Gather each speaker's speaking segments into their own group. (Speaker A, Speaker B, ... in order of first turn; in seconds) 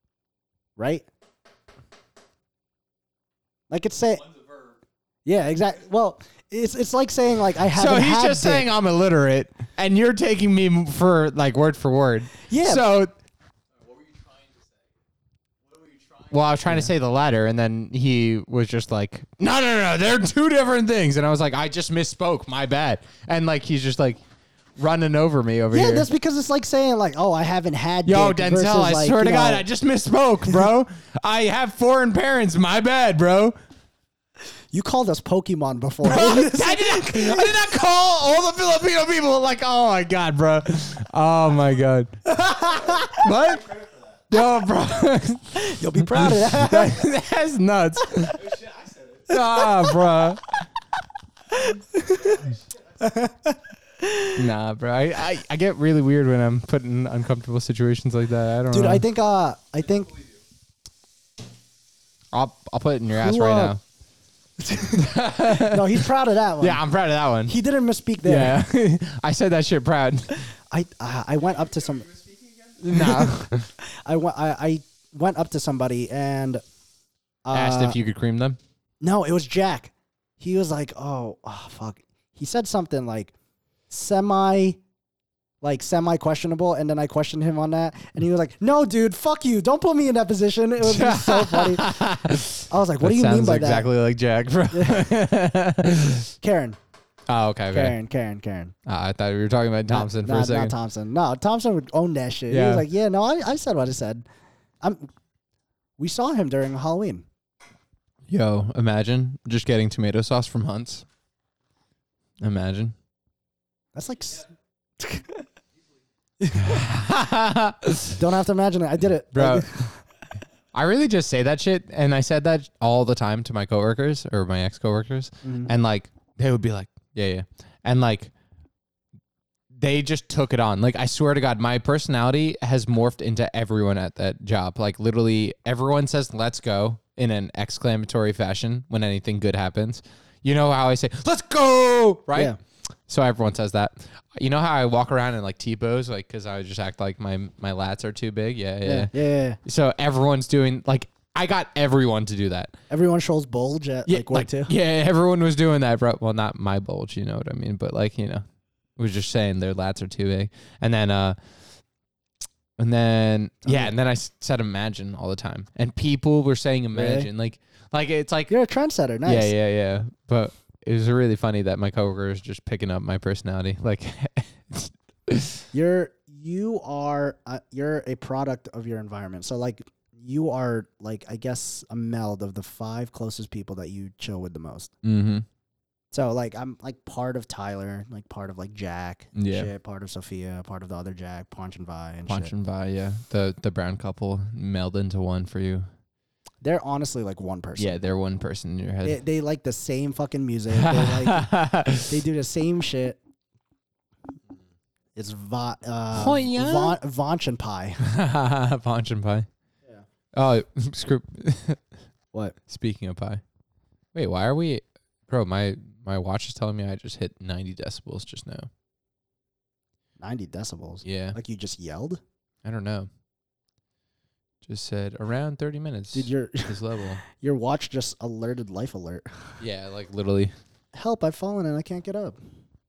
Speaker A: 0.8-1.1, 3.7-4.4, 5.2-8.7, 12.5-12.9, 25.7-29.6, 34.7-37.6, 42.5-43.1, 45.5-47.0, 49.5-50.0, 51.6-54.4, 58.7-60.2, 63.1-63.8, 64.6-66.8, 67.5-68.6, 70.7-72.1, 72.9-76.6, 77.5-78.0, 79.0-83.3, 83.9-84.8, 85.6-92.0, 92.7-93.9, 94.7-95.1, 96.4-96.8, 97.7-98.7, 99.9-104.2, 104.8-105.1, 106.0-107.2, 114.0-114.5, 115.0-115.3, 116.4-116.8, 118.2-120.0, 125.4-125.7, 148.8-149.6, 152.9-154.7, 163.6-163.9, 166.9-167.3, 168.5-169.5, 175.7-184.9, 186.1-192.5, 196.6-198.0, 199.0-201.5, 202.0-203.2, 205.1-208.1, 220.2-222.2, 226.1-226.8, 227.3-229.6, 230.9-232.4
Speaker B: 7.7-13.1, 16.2-24.2, 24.8-26.1, 28.1-33.6, 36.0-43.7, 44.3-48.6, 49.3-50.7, 54.4-59.0, 62.3-63.8, 64.9-67.5, 68.2-70.5, 72.8-73.7, 77.5-78.6, 90.8-96.3, 97.3-98.0, 98.9-100.7, 102.5-102.9, 108.3-111.0, 112.4-113.0, 116.5-118.2, 119.3-119.8, 120.7-128.3, 129.7-142.5, 143.1-152.7, 154.1-158.4, 159.0-161.4, 162.8-168.5, 169.2-175.7, 185.0-185.4, 189.4-189.7, 192.3-195.9, 197.8-199.2, 200.7-202.2, 206.1-207.0, 208.0-209.5, 210.3-211.8, 212.7-213.4, 214.1-218.7, 221.0-221.4, 222.6-223.1, 224.6-227.2, 229.6-230.6